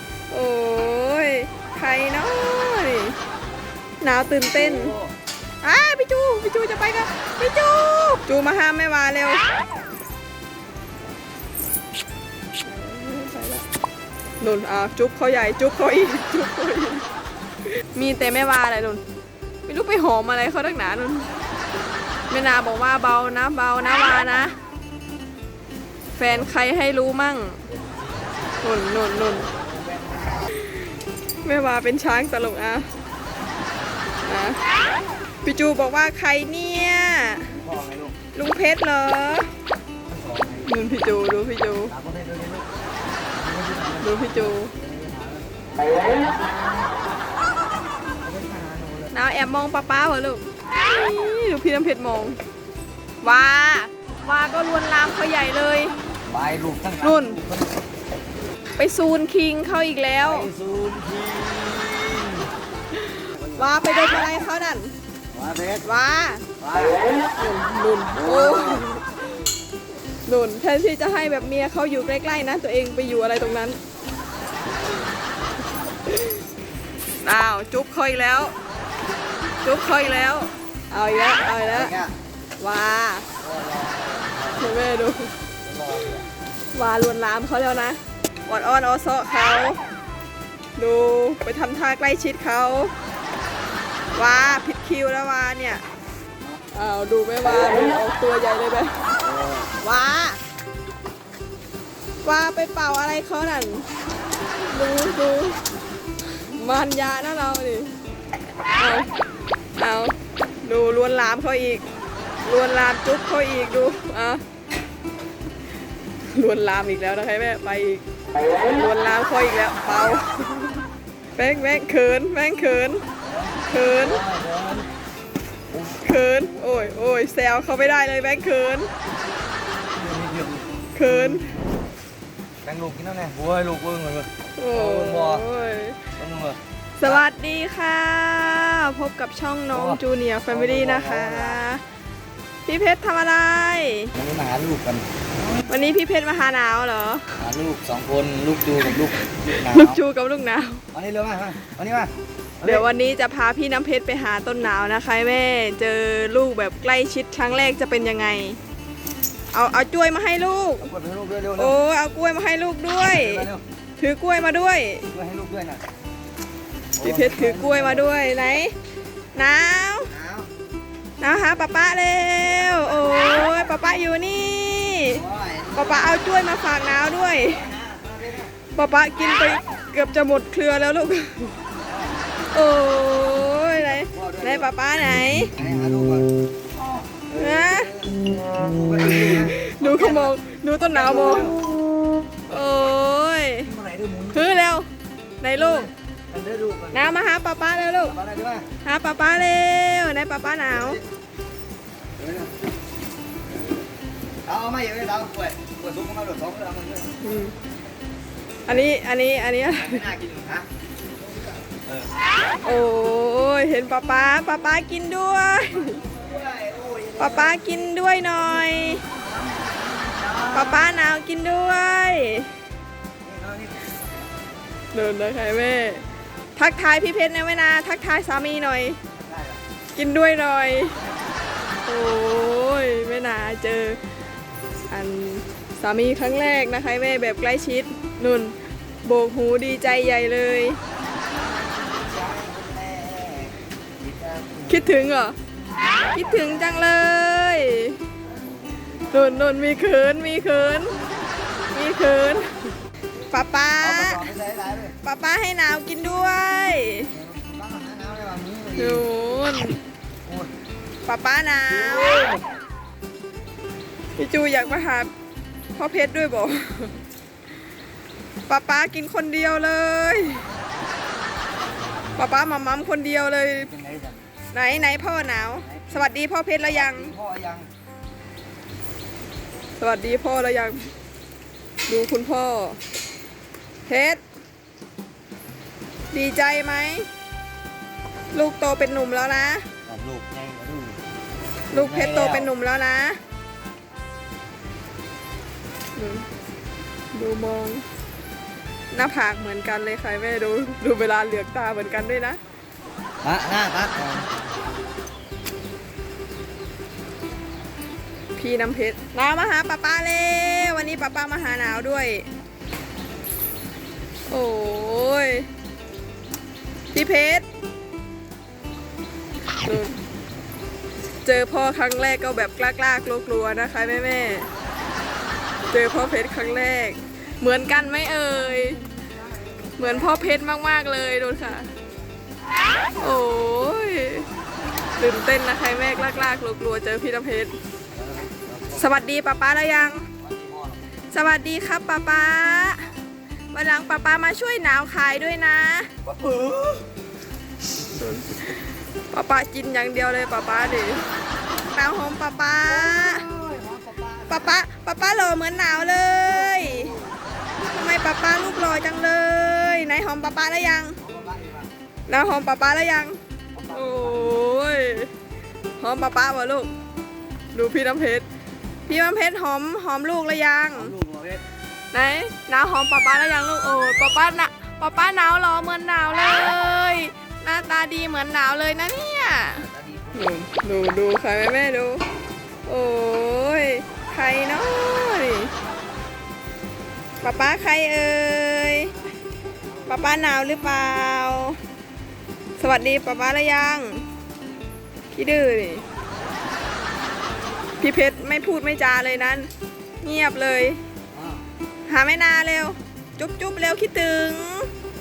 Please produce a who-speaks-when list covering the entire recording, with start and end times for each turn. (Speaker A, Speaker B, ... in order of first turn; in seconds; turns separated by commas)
Speaker A: 0.3-3.1, Speaker A: 4.0-4.9, Speaker B: 4.6-5.1, Speaker A: 5.6-9.4, Speaker A: 12.6-13.6, Speaker A: 14.4-17.1, Speaker A: 17.6-19.0, Speaker A: 19.7-21.3, Speaker A: 22.3-24.6, Speaker A: 26.2-27.6, Speaker B: 27.7-28.6, Speaker A: 28.6-29.5, Speaker B: 29.2-30.5, Speaker A: 31.4-32.9, Speaker A: 34.2-34.6, Speaker A: 35.4-37.5, Speaker B: 37.5-38.1, Speaker A: 38.3-39.5, Speaker B: 40.0-40.8, Speaker A: 40.6-41.9, Speaker B: 41.9-42.7, Speaker B: 43.3-46.9, Speaker A: 44.0-44.7, Speaker B: 48.2-49.1, Speaker A: 49.1-52.4, Speaker A: 53.2-55.9, Speaker B: 56.3-57.7, Speaker A: 57.0-57.4, Speaker A: 58.8-60.5, Speaker B: 60.2-62.5, Speaker A: 63.0-64.9, Speaker B: 63.3-63.8, Speaker B: 65.3-65.9, Speaker A: 65.8-66.4, Speaker B: 66.6-67.1, Speaker A: 67.4-69.4, Speaker B: 68.1-68.9, Speaker A: 70.2-73.8, Speaker A: 76.1-76.4, Speaker A: 77.2-78.5, Speaker A: 79.6-81.9, Speaker B: 81.6-82.1, Speaker A: 82.6-83.2, Speaker B: 83.4-84.8, Speaker A: 84.6-85.3, Speaker B: 85.6-86.3, Speaker A: 86.7-89.8, Speaker A: 90.8-92.9, Speaker A: 94.1-95.8, Speaker A: 96.7-99.0, Speaker B: 99.1-99.7, Speaker A: 99.8-100.4, Speaker A: 102.2-103.9, Speaker A: 104.5-105.6, Speaker A: 106.4-107.9, Speaker A: 108.8-109.1, Speaker A: 109.8-111.8, Speaker A: 112.4-114.4, Speaker A: 116.3-120.8, Speaker A: 121.3-123.0, Speaker B: 123.2-124.9, Speaker A: 123.7-124.2, Speaker B: 125.7-126.1, Speaker A: 126.0-128.9, Speaker B: 129.9-131.5, Speaker A: 130.9-131.5, Speaker B: 132.6-135.4, Speaker A: 134.6-136.0, Speaker B: 136.2-137.2, Speaker A: 137.0-141.8, Speaker B: 139.7-141.6, Speaker A: 142.7-144.1, Speaker B: 144.1-145.1, Speaker A: 145.7-147.3, Speaker B: 147.4-150.0, Speaker A: 149.5-150.8, Speaker B: 150.9-152.9, Speaker A: 152.6-158.6, Speaker A: 159.5-160.9, Speaker B: 160.8-161.8, Speaker A: 161.6-163.4, Speaker B: 162.9-163.6, Speaker A: 164.0-165.1, Speaker B: 165.1-165.8, Speaker B: 167.0-168.1, Speaker A: 167.0-168.7, Speaker A: 169.3-170.1, Speaker B: 170.1-170.5, Speaker A: 171.2-175.2, Speaker B: 175.1-176.2, Speaker A: 175.7-177.7, Speaker B: 177.4-178.5, Speaker A: 178.7-181.6, Speaker B: 181.8-182.4, Speaker A: 182.5-185.5, Speaker B: 183.8-184.7, Speaker B: 185.5-186.3, Speaker B: 187.0-191.6, Speaker A: 187.3-187.9, Speaker A: 189.1-191.6, Speaker A: 192.5-193.7, Speaker B: 193.7-194.5, Speaker A: 194.3-194.9, Speaker A: 195.4-195.9, Speaker B: 195.6-197.1, Speaker A: 196.9-198.2, Speaker B: 198.1-198.7, Speaker A: 198.8-201.0, Speaker B: 200.7-201.0, Speaker B: 202.2-202.5, Speaker B: 204.4-207.1, Speaker A: 207.2-207.5, Speaker A: 208.7-210.1, Speaker B: 209.7-210.7, Speaker B: 211.7-212.1, Speaker A: 212.6-216.0, Speaker B: 215.7-217.9, Speaker A: 217.2-219.0, Speaker B: 219.0-220.9, Speaker A: 220.5-222.5, Speaker B: 223.2-224.0, Speaker A: 224.9-226.0, Speaker A: 226.6-229.0, Speaker B: 229.1-229.6, Speaker A: 229.9-231.0, Speaker A: 231.8-234.0, Speaker A: 234.9-240.8, Speaker B: 241.3-245.0, Speaker A: 244.7-245.3, Speaker A: 246.1-248.0, Speaker B: 246.2-246.8, Speaker B: 248.3-249.4, Speaker A: 249.1-251.0, Speaker A: 251.7-252.7, Speaker A: 253.3-254.2, Speaker B: 253.8-254.9, Speaker A: 255.0-257.1, Speaker B: 257.1-259.0, Speaker A: 258.8-259.8, Speaker B: 260.2-260.5, Speaker A: 261.1-262.2, Speaker B: 261.7-262.5, Speaker A: 264.2-265.1, Speaker A: 265.8-267.0, Speaker A: 268.5-270.4, Speaker B: 271.6-272.0, Speaker A: 272.2-273.7, Speaker B: 273.5-274.2, Speaker A: 274.5-277.1, Speaker B: 275.6-276.1, Speaker B: 276.6-277.7, Speaker A: 279.8-280.9, Speaker A: 281.9-282.8, Speaker A: 283.9-284.2, Speaker A: 286.1-287.1, Speaker A: 288.3-289.7, Speaker B: 289.9-291.0, Speaker B: 291.7-292.5, Speaker A: 291.7-293.2, Speaker A: 295.9-296.3, Speaker A: 297.1-297.8, Speaker A: 298.9-302.4, Speaker B: 303.2-304.3, Speaker A: 308.4-312.3, Speaker A: 314.3-315.5, Speaker A: 316.9-317.4, Speaker A: 319.6-320.0, Speaker A: 321.2-324.5, Speaker A: 325.7-328.8, Speaker A: 329.8-331.7, Speaker A: 333.0-334.3, Speaker A: 335.0-337.5, Speaker B: 337.9-338.9, Speaker A: 338.8-340.1, Speaker B: 340.2-340.9, Speaker A: 341.1-342.9, Speaker A: 343.5-346.0, Speaker B: 346.0-346.9, Speaker A: 347.8-348.6, Speaker A: 349.1-351.1, Speaker A: 351.7-353.2, Speaker B: 352.6-354.6, Speaker A: 354.3-356.9, Speaker B: 356.5-357.1, Speaker A: 357.7-361.0, Speaker B: 361.0-361.7, Speaker A: 362.1-363.2, Speaker B: 363.5-364.4, Speaker A: 363.7-365.1, Speaker A: 365.8-366.7, Speaker A: 367.5-368.2, Speaker A: 368.9-370.9, Speaker B: 370.7-371.4, Speaker A: 371.9-382.0, Speaker B: 379.6-380.3, Speaker A: 382.6-385.5, Speaker A: 387.2-388.9, Speaker A: 389.9-391.6, Speaker A: 392.6-394.0, Speaker A: 395.1-395.8, Speaker A: 397.8-399.5, Speaker A: 400.0-400.8, Speaker B: 401.1-401.4, Speaker A: 401.9-404.7